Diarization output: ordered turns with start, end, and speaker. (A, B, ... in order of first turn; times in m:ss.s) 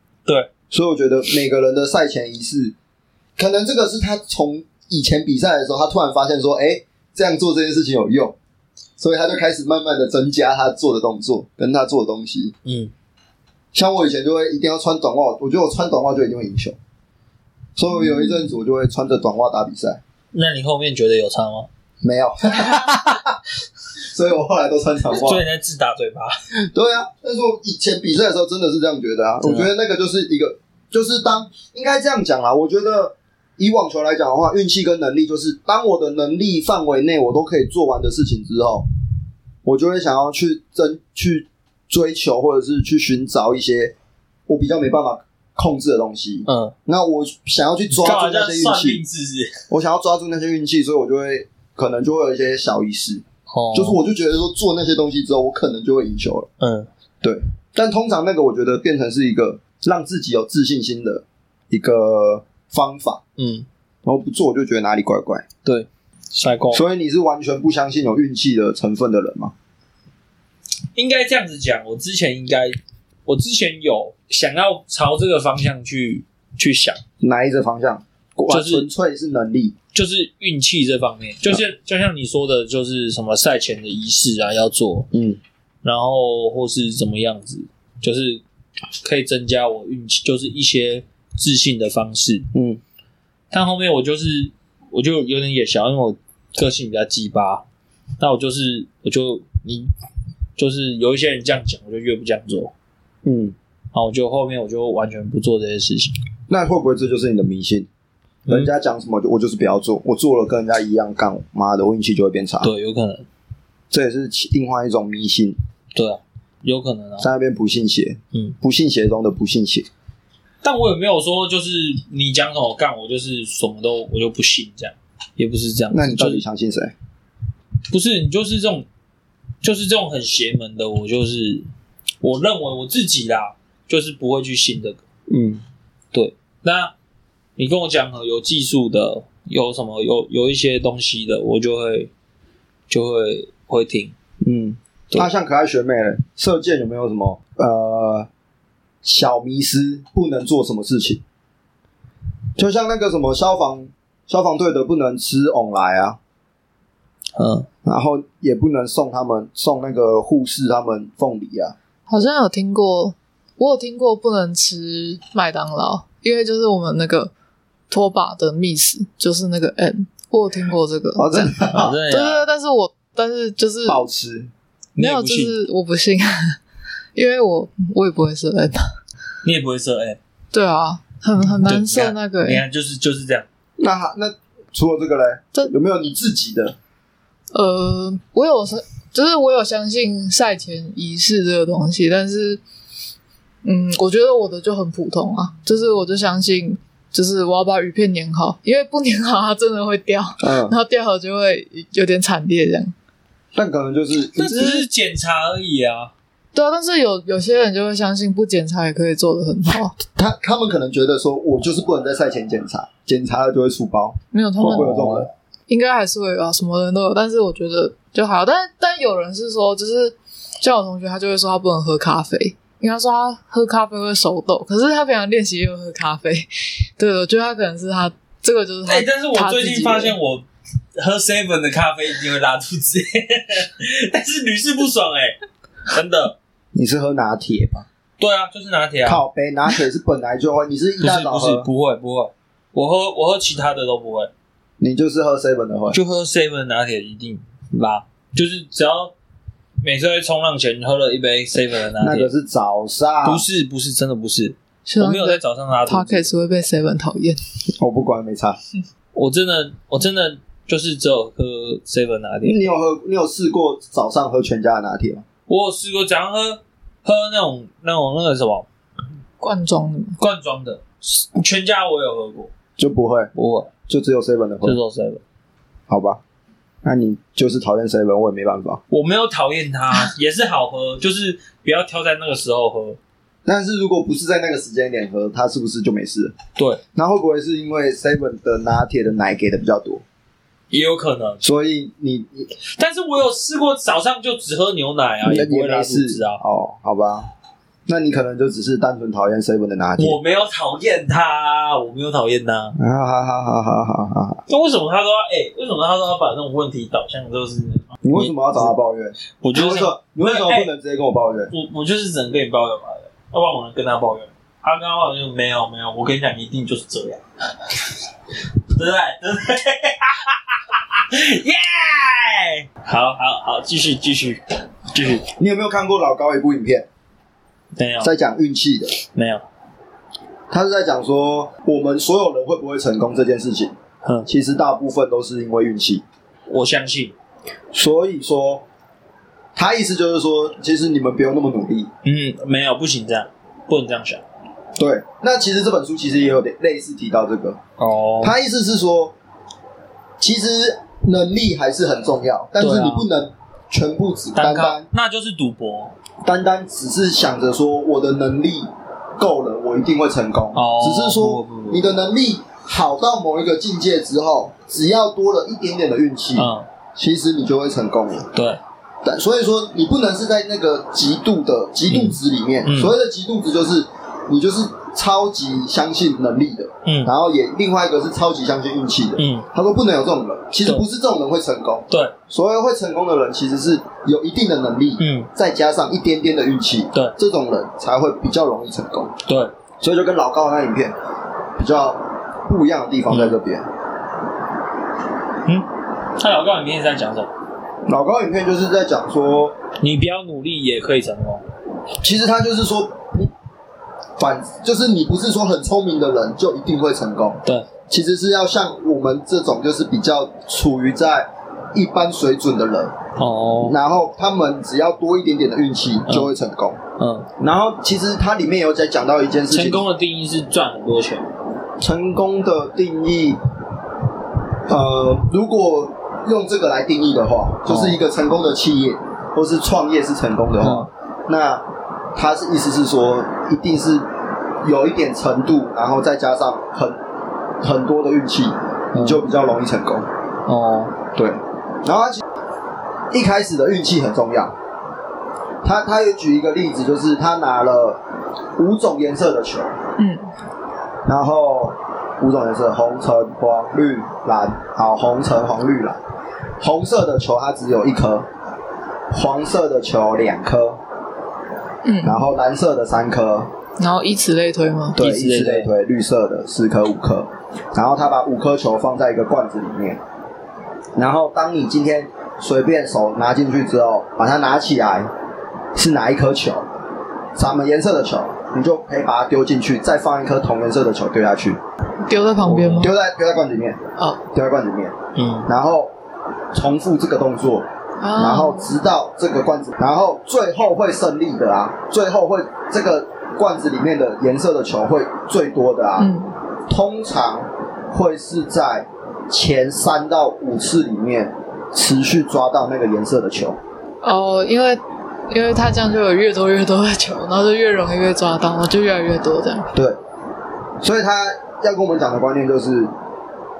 0:00.7-0:02.7 A
0:03.4-0:08.4 A
0:09.0-0:12.6 A
0:12.6-0:12.9 B
0:13.7-0:16.8 A
0:17.8-0:20.0 A
0:20.3-0:21.7 B
0:22.0-0:23.3 A
0:22.5-0:23.2 B
0:24.1-0:25.4 A
0:25.1-0:26.3 B
0:26.7-0:38.8 A
0:29.4-0:29.7 B
0:39.6-0:43.9 A
0:44.5-0:49.0 A
0:46.5-0:46.7 B
0:48.0-0:49.6 B
0:49.7-0:56.5 A
0:53.5-0:54.0 B
0:56.6-0:56.9 B
0:57.2-1:03.2 A
1:03.4-1:03.7 B
1:04.0-1:05.4 A
1:05.6-1:06.8 B
1:06.7-1:09.5 A
1:10.9-1:17.0 B
1:17.2-1:19.7 A
1:18.5-1:18.9 B
1:19.9-1:25.1 B
1:25.1-1:25.4 A
1:25.8-1:28.4 B
1:29.0-1:32.5 B
1:32.5-1:32.8 A
1:33.5-1:37.6 B
1:38.2-1:39.9 B
1:40.6-1:42.7 B
1:43.2-1:43.6 A
1:43.9-1:46.2 B
1:46.5-1:47.9 A
1:48.4-1:48.7 B
1:48.5-1:52.7 A
1:52.6-1:53.2 B
1:53.9-1:55.6 A
1:55.9-1:57.3 B
1:57.2-1:59.9 A
2:00.6-2:06.4 B
2:05.9-2:06.9 A
2:07.9-2:08.9 B
2:09.6-2:11.7 B
2:12.2-2:15.0 B
2:15.3-2:15.6 A
2:16.1-2:16.9 B
2:17.6-2:22.1 B
2:22.9-2:24.1 B
2:24.4-2:28.3 A
2:29.0-2:31.2 A
2:32.6-2:36.2 A
2:37.3-2:37.7 B
2:37.8-2:41.8 A
2:42.1-2:47.3 C
2:47.9-2:54.0 C
2:51.2-2:51.9 A
2:51.7-2:52.5 B
2:53.8-2:54.5 A
2:55.0-2:55.6 B
2:55.0-2:56.6 C
2:57.1-2:58.8 C
2:59.4-3:00.2 B
3:00.5-3:02.6 C
3:01.6-3:03.4 B
3:03.8-3:06.8 A
3:07.5-3:12.6 C
3:13.6-3:22.9 C
3:20.4-3:20.8 A
3:23.5-3:24.8 A
3:24.4-3:26.1 B
3:26.5-3:30.0 C
3:30.1-3:35.3 A
3:34.3-3:34.9 C
3:34.6-3:35.3 B
3:35.7-3:50.1 C
3:48.8-3:50.4 B
3:51.0-3:55.4 B
3:55.9-3:56.4 B
3:56.7-3:57.9 A
3:58.2-3:59.2 B
3:59.0-4:01.7 A
4:01.0-4:04.3 B
4:04.8-4:06.0 A
4:05.9-4:09.1 B
4:09.8-4:12.3 B
4:12.0-4:13.4 A
4:13.2-4:16.3 B
4:14.8-4:17.4 C
4:17.8-4:18.6 A
4:19.1-4:22.6 B
4:22.4-4:25.2 A
4:25.5-4:28.7 B
4:29.4-4:30.2 C
4:30.2-4:32.5 B
4:32.8-4:33.3 A
4:33.3-4:33.7 B
4:33.9-4:34.8 A
4:34.6-4:35.2 B
4:35.9-4:36.2 A
4:36.8-4:38.8 A
4:38.9-4:43.0 B
4:43.4-4:46.4 A
4:46.9-4:50.0 A
4:50.7-4:51.4 B
4:51.4-4:52.5 A
4:52.7-4:56.4 B
4:55.2-4:57.3 A
4:57.9-5:00.2 A
5:00.0-5:02.8 B
5:02.8-5:04.4 A
5:04.5-5:08.7 B
5:08.0-5:11.5 A
5:09.4-5:10.7 B
5:11.5-5:17.8 B
5:18.7-5:25.2 B
5:25.3-5:26.9 A
5:27.7-5:28.1 B
5:28.0-5:28.9 A
5:29.0-5:29.4 B
5:30.5-5:33.7 A
5:34.0-5:34.3 B
5:34.2-5:36.0 A
5:36.5-5:37.1 B
5:37.7-5:38.6 A
5:39.5-5:41.9 A
5:42.0-5:44.2 B
5:44.8-5:47.6 A
5:47.8-5:48.3 B
5:48.2-5:49.2 A
5:50.2-5:54.9 A
5:52.6-5:53.1 B
5:54.3-5:55.9 B
5:56.2-6:08.3 A
6:00.5-6:01.9 B
6:06.4-6:06.7 B
6:08.3-6:08.6 B
6:09.0-6:29.1 A
6:11.9-6:12.9 B
6:16.8-6:17.1 B
6:19.2-6:19.5 B
6:25.0-6:25.3 B
6:29.2-6:29.5 B
6:29.8-6:31.0 A
6:31.6-6:33.6 A
6:33.1-6:33.4 B
6:35.4-6:37.3 B
6:37.9-6:39.6 A
6:39.8-6:41.4 B
6:42.0-6:43.3 A
6:44.2-6:53.0 A
6:53.2-6:53.8 B
6:53.6-6:56.8 A
6:56.1-6:56.3 B
6:57.0-6:57.3 B
6:57.4-6:59.8 A
6:59.5-7:01.3 B
7:01.8-7:03.4 A
7:04.7-7:14.1 A
7:07.6-7:08.0 B
7:10.6-7:10.9 B
7:14.6-7:17.0 A
7:17.6-7:20.1 A
7:18.9-7:19.2 B
7:20.4-7:21.0 B
7:21.1-7:22.2 A
7:23.1-7:24.5 A
7:25.6-7:28.0 A
7:28.6-7:29.7 A
7:30.0-7:30.3 C
7:31.0-7:36.0 A
7:36.6-7:38.3 A
7:39.1-7:40.8 A
7:41.8-7:42.3 C
7:42.0-7:43.5 A
7:43.8-7:45.0 C
7:45.0-7:45.7 B
7:45.0-7:50.0 A
7:51.0-7:55.1 A
7:55.7-7:56.6 A
7:57.4-8:01.6 A
8:02.0-8:02.9 C
8:02.4-8:02.9 B
8:02.8-8:03.8 A
8:04.0-8:04.2 C
8:04.3-8:05.9 A
8:05.1-8:05.5 B
8:06.5-8:16.1 A
8:08.0-8:08.7 C
8:16.0-8:16.3 C
8:16.7-8:23.6 A
8:24.0-8:29.7 C
8:30.8-8:32.9 A